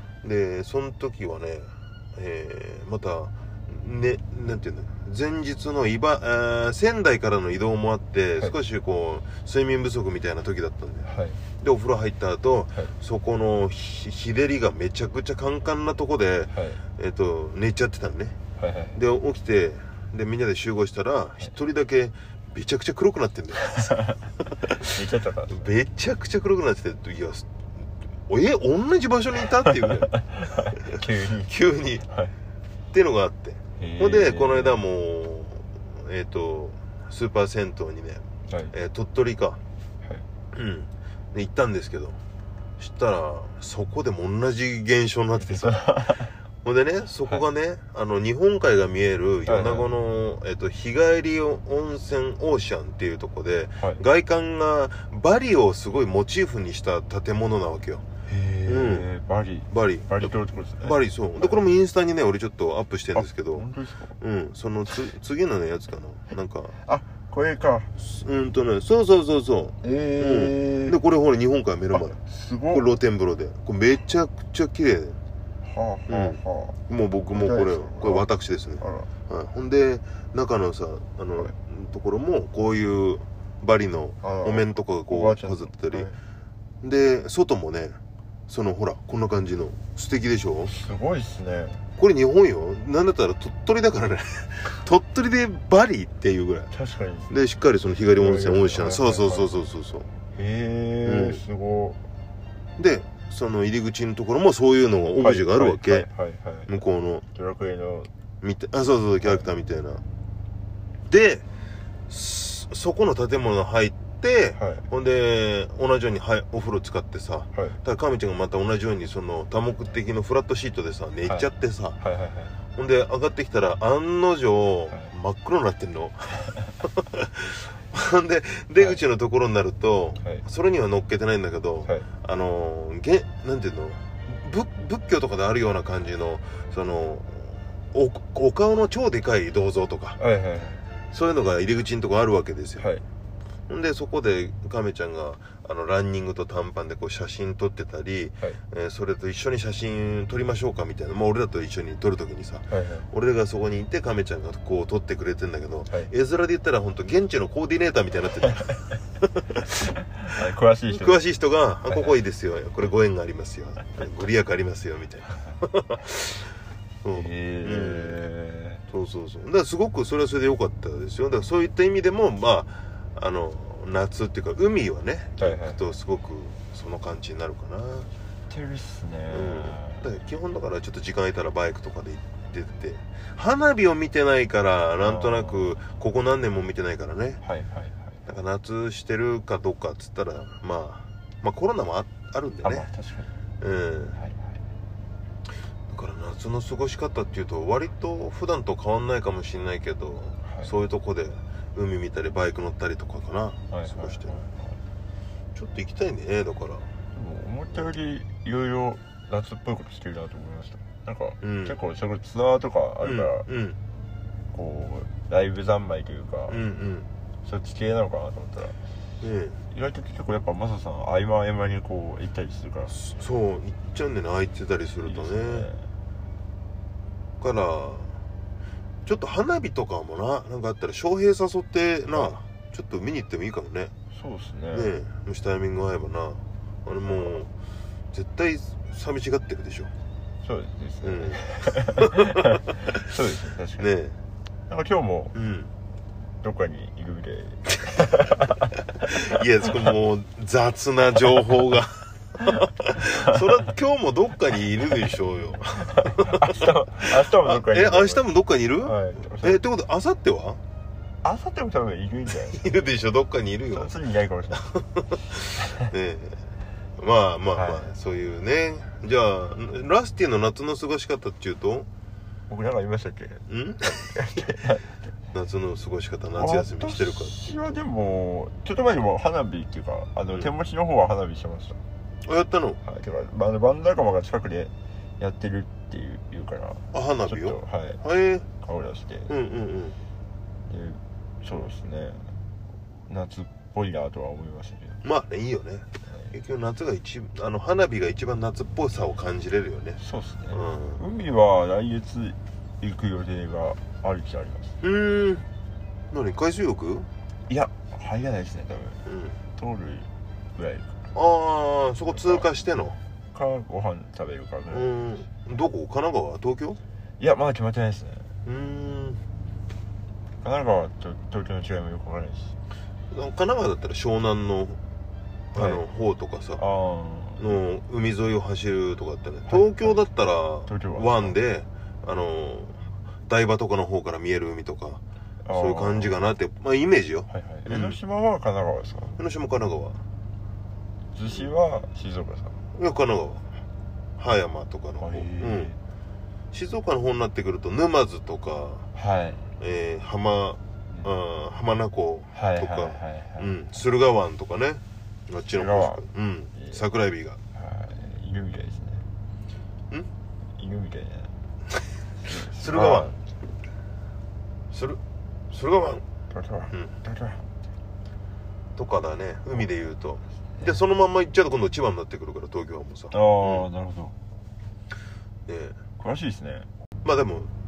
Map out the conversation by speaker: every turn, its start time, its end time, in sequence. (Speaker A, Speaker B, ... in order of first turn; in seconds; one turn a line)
Speaker A: 0.2-18.4
Speaker B: 11.1-11.4
Speaker B: 16.5-16.8
Speaker B: 18.6-19.0
Speaker A: 18.9-24.9
Speaker B: 23.7-24.1
Speaker B: 24.8-25.7
Speaker A: 25.5-32.0
Speaker B: 29.6-32.3
Speaker A: 32.9-39.6
Speaker B: 33.8-34.8
Speaker B: 38.5-38.7
Speaker A: 40.5-42.2
Speaker A: 42.8-58.0
Speaker B: 45.4-46.3
Speaker B: 49.5-49.9
Speaker B: 58.2-61.7
Speaker A: 58.6-59.1
Speaker A: 59.7-63.6
Speaker B: 63.1-64.2
Speaker A: 64.2-66.7
Speaker B: 66.8-67.9
Speaker A: 68.0-72.2
Speaker B: 69.8-71.0
Speaker B: 71.9-72.8
Speaker A: 72.7-75.2
Speaker B: 75.6-76.8
Speaker A: 76.1-86.1
Speaker B: 77.3-78.3
Speaker B: 78.8-79.1
Speaker B: 84.2-86.2
Speaker A: 86.8-90.7
Speaker B: 90.7-91.8
Speaker A: 92.0-96.7
Speaker B: 96.7-97.3
Speaker A: 97.3-100.1
Speaker B: 98.1-99.5
Speaker B: 100.3-102.0
Speaker A: 101.0-101.4
Speaker A: 102.8-106.1
Speaker B: 105.2-106.8
Speaker A: 106.7-107.2
Speaker B: 107.3-108.1
Speaker A: 108.4-110.0
Speaker A: 111.1-111.4
Speaker A: 112.1-122.0
Speaker B: 114.6-114.8
Speaker B: 117.5-117.8
Speaker B: 121.2-122.5
Speaker A: 122.7-140.2
Speaker B: 140.2-140.8
Speaker A: 141.1-142.9
Speaker B: 142.8-143.0
Speaker A: 143.7-159.8
Speaker B: 152.7-153.1
Speaker B: 160.0-161.2
Speaker A: 160.9-166.5
Speaker B: 161.9-162.2
Speaker A: 167.0-168.2
Speaker B: 167.1-168.8
Speaker A: 168.9-178.1
Speaker B: 175.4-175.9
Speaker B: 178.5-180.1
Speaker A: 179.3-187.4
Speaker B: 185.0-185.8
Speaker B: 187.4-188.3
Speaker A: 188.3-192.8
Speaker B: 192.6-193.3
Speaker A: 193.6-194.2
Speaker B: 194.1-194.6
Speaker A: 195.9-204.3
Speaker B: 200.4-200.7
Speaker B: 203.7-204.8
Speaker A: 205.5-206.8
Speaker B: 207.1-213.5
Speaker A: 211.4-211.8
Speaker A: 213.0-213.8
Speaker B: 214.5-216.6
Speaker A: 216.5-217.1
Speaker B: 217.4-218.8
Speaker A: 219.2-219.6
Speaker B: 219.7-222.9
Speaker A: 222.9-225.7
Speaker B: 225.1-225.9
Speaker A: 227.4-228.2
Speaker A: 229.1-233.9
Speaker B: 234.1-234.9
Speaker A: 234.7-237.5
Speaker B: 237.1-237.4
Speaker A: 238.1-239.9
Speaker B: 240.4-243.9
Speaker A: 241.0-242.6
Speaker A: 243.8-244.2
Speaker B: 244.7-245.3
Speaker A: 245.3-245.7
Speaker B: 246.4-248.7
Speaker A: 248.9-260.6
Speaker B: 256.0-258.3
Speaker B: 258.8-259.6
Speaker B: 261.2-262.7
Speaker A: 262.5-263.9
Speaker B: 263.7-264.7
Speaker A: 264.6-266.4
Speaker B: 265.6-265.9
Speaker A: 267.0-271.9
Speaker B: 267.5-267.9
Speaker B: 272.5-274.9
Speaker A: 273.5-274.1
Speaker A: 275.3-277.4
Speaker B: 276.4-281.8
Speaker A: 282.2-282.8
Speaker B: 282.8-288.0
Speaker A: 286.9-288.4
Speaker B: 288.6-289.3
Speaker A: 289.3-290.0
Speaker B: 290.6-292.3
Speaker B: 293.1-295.0
Speaker A: 295.0-300.0
Speaker B: 296.1-296.3
Speaker B: 300.0-304.8
Speaker A: 300.5-301.0
Speaker A: 304.8-305.4
Speaker A: 306.1-307.1
Speaker B: 307.5-309.0
Speaker A: 309.1-309.4
Speaker B: 309.6-310.9
Speaker A: 311.1-313.0
Speaker B: 312.1-312.5
Speaker B: 313.3-314.9
Speaker A: 314.7-316.8
Speaker B: 317.2-318.3
Speaker A: 318.4-319.2
Speaker B: 320.4-322.5
Speaker A: 323.1-324.8
Speaker A: 325.5-326.6
Speaker B: 325.6-325.8
Speaker B: 326.6-327.6
Speaker A: 327.4-335.0
Speaker B: 329.5-330.1
Speaker B: 330.7-331.4
Speaker B: 335.4-336.1
Speaker A: 335.5-337.9
Speaker B: 337.3-339.2
Speaker A: 339.2-340.0
Speaker B: 341.1-342.6
Speaker A: 342.7-343.5
Speaker A: 344.2-345.7
Speaker B: 345.0-345.8
Speaker A: 346.5-348.9
Speaker B: 348.9-349.5
Speaker A: 349.6-357.4
Speaker B: 352.3-353.6
Speaker B: 355.4-356.8
Speaker B: 357.5-359.1
Speaker B: 360.5-361.3
Speaker B: 362.2-363.2
Speaker A: 362.3-363.1
Speaker A: 364.7-365.0
Speaker A: 365.5-366.0
Speaker B: 366.3-367.4
Speaker A: 368.8-373.7
Speaker B: 373.1-374.1
Speaker A: 375.5-375.8
Speaker B: 376.0-376.7
Speaker A: 377.0-377.5